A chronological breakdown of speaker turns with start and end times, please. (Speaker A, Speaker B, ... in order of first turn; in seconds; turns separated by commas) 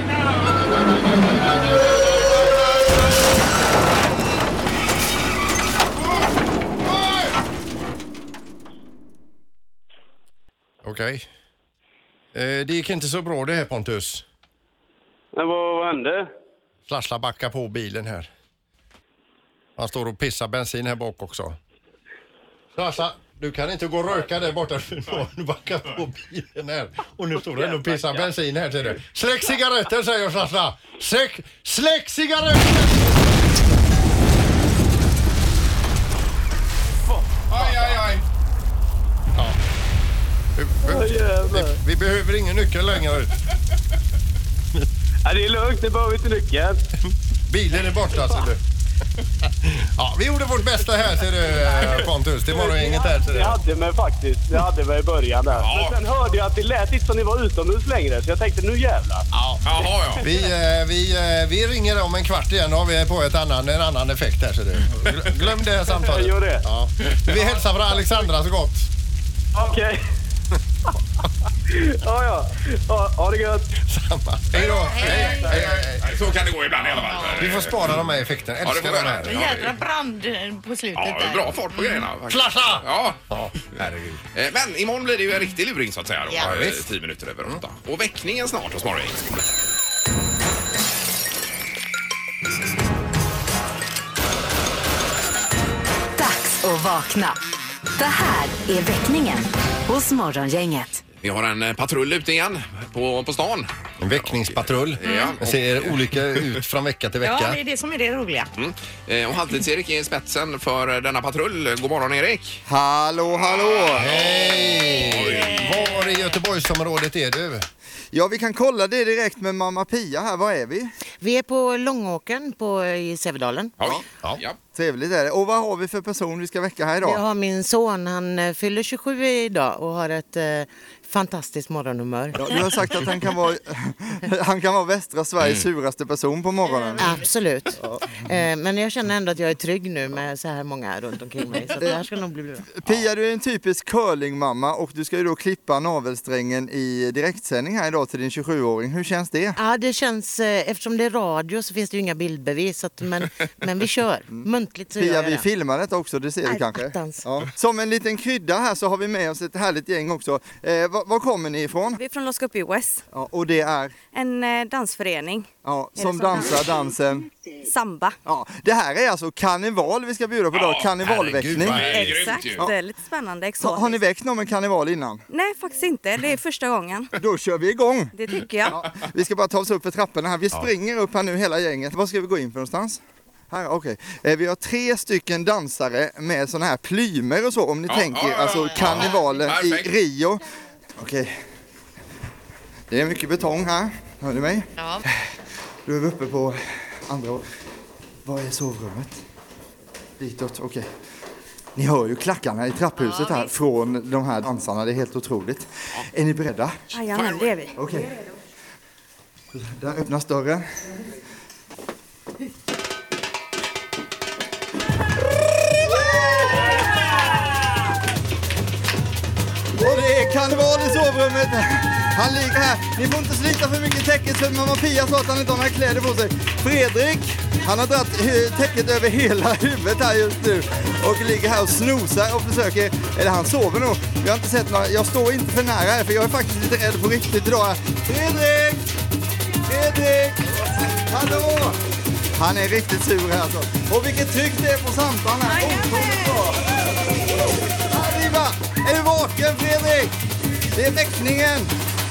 Speaker A: 0.7-2.4, Speaker A: 10.8-11.3, Speaker A: 12.3-14.2, Speaker B: 15.3-16.3, Speaker A: 16.9-18.3, Speaker A: 19.8-21.6, Speaker A: 22.7-33.2, Speaker B: 27.6-28.3, Speaker C: 37.5-38.2, Speaker A: 40.5-43.3, Speaker B: 40.9-41.8, Speaker B: 45.2-46.8, Speaker A: 47.1-48.6, Speaker A: 49.4-53.6, Speaker B: 52.5-59.3, Speaker C: 55.5-56.0, Speaker A: 59.3-59.6, Speaker C: 59.6-60.2, Speaker A: 60.2-68.9, Speaker B: 66.0-66.6, Speaker B: 69.5-70.0, Speaker B: 71.7-73.7, Speaker A: 73.9-76.2, Speaker C: 74.5-78.0, Speaker D: 74.6-75.4, Speaker D: 77.1-77.5, Speaker A: 77.4-79.4, Speaker C: 78.6-79.7, Speaker D: 79.2-82.1, Speaker C: 81.0-83.2, Speaker A: 82.3-84.2, Speaker C: 83.7-89.5, Speaker A: 86.4-86.8, Speaker E: 96.2-97.4, Speaker E: 98.0-101.0, Speaker C: 101.2-106.5, Speaker A: 104.0-107.6, Speaker D: 105.0-105.3, Speaker D: 107.2-108.5, Speaker C: 108.6-112.6, Speaker F: 112.7-114.2, Speaker C: 113.5-115.7, Speaker A: 114.0-117.7, Speaker D: 115.1-116.0, Speaker F: 118.1-120.9, Speaker G: 121.2-123.7, Speaker C: 123.8-124.6, Speaker F: 124.7-127.2, Speaker G: 127.0-132.6, Speaker F: 132.4-137.2, Speaker D: 136.7-137.0, Speaker G: 137.0-142.7, Speaker F: 142.7-149.6, Speaker G: 149.6-155.4, Speaker F: 154.3-162.0, Speaker G: 156.5-157.2, Speaker H: 162.0-163.0, Speaker F: 163.1-163.9, Speaker H: 164.1-166.9, Speaker F: 165.6-167.3, Speaker H: 167.6-168.2, Speaker F: 168.2-172.7, Speaker C: 170.5-172.7, Speaker A: 171.0-172.2, Speaker H: 171.8-174.0, Speaker F: 173.6-175.2, Speaker H: 175.3-177.1, Speaker F: 177.2-190.4, Speaker H: 178.1-178.8, Speaker C: 187.9-189.9, Speaker F: 191.0-191.4, Speaker F: 192.9-195.3, Speaker D: 194.8-195.0, Speaker F: 195.8-197.4, Speaker F: 198.2-199.2, Speaker F: 200.2-200.9, Speaker F: 201.8-206.8, Speaker D: 203.0-203.5, Speaker H: 206.9-208.2, Speaker C: 207.1-207.6, Speaker F: 207.8-208.1, Speaker F: 209.5-210.7, Speaker F: 219.8-238.9, Speaker F: 239.7-241.8, Speaker F: 242.3-246.6, Speaker H: 245.5-246.3, Speaker F: 247.9-250.1, Speaker F: 250.7-251.7